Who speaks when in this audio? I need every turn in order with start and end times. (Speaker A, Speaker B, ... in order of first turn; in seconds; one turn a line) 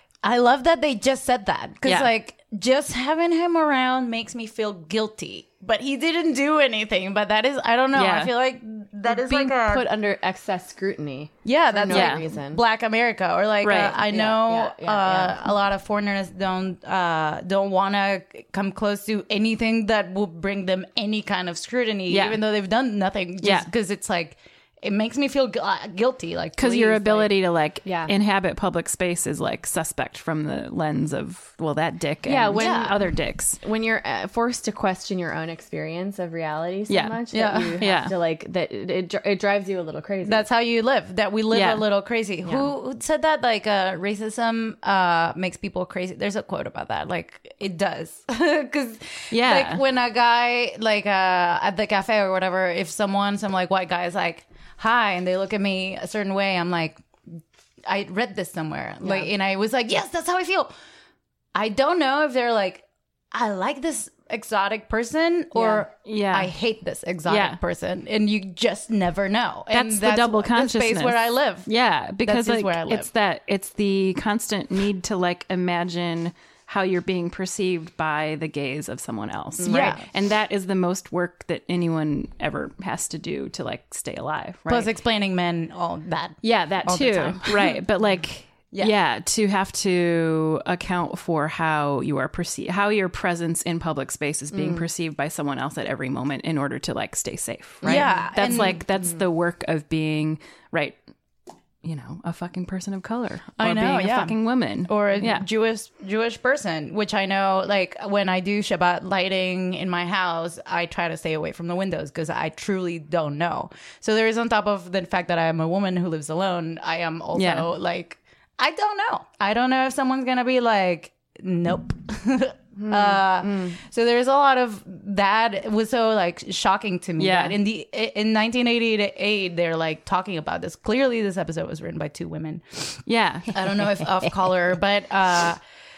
Speaker A: 0.2-9.9
Speaker B: 1.8-2.1
Speaker B: 7.9-8.3
Speaker C: 9.1-12.6
Speaker A: 11.4-27.3
Speaker B: 11.9-12.2
Speaker B: 13.6-14.0
Speaker C: 14.1-15.4
Speaker B: 22.1-22.4
Speaker B: 23.4-23.7
Speaker B: 26.6-33.6
Speaker C: 27.8-28.1
Speaker C: 32.2-33.0
Speaker A: 32.5-32.9
Speaker C: 33.6-40.4
Speaker B: 36.9-38.1
Speaker A: 37.3-37.8
Speaker A: 40.2-57.0
Speaker B: 41.5-41.8
Speaker B: 49.3-49.8
Speaker A: 57.8-60.7
Speaker C: 59.0-59.3
Speaker A: 61.5-71.7
Speaker C: 65.5-65.8
Speaker B: 66.0-66.5
Speaker B: 67.3-67.6
Speaker B: 69.7-84.9
Speaker A: 72.2-73.1
Speaker C: 79.6-80.0
Speaker A: 79.6-80.0
Speaker A: 84.7-87.8
Speaker B: 86.4-101.0
Speaker C: 97.8-98.3
Speaker A: 97.8-98.8
Speaker B: 101.8-105.5
Speaker A: 103.6-133.0
Speaker B: 117.3-117.7
Speaker C: 122.8-123.8
Speaker B: 127.2-127.6
Speaker B: 133.1-133.6
Speaker A: 133.5-135.6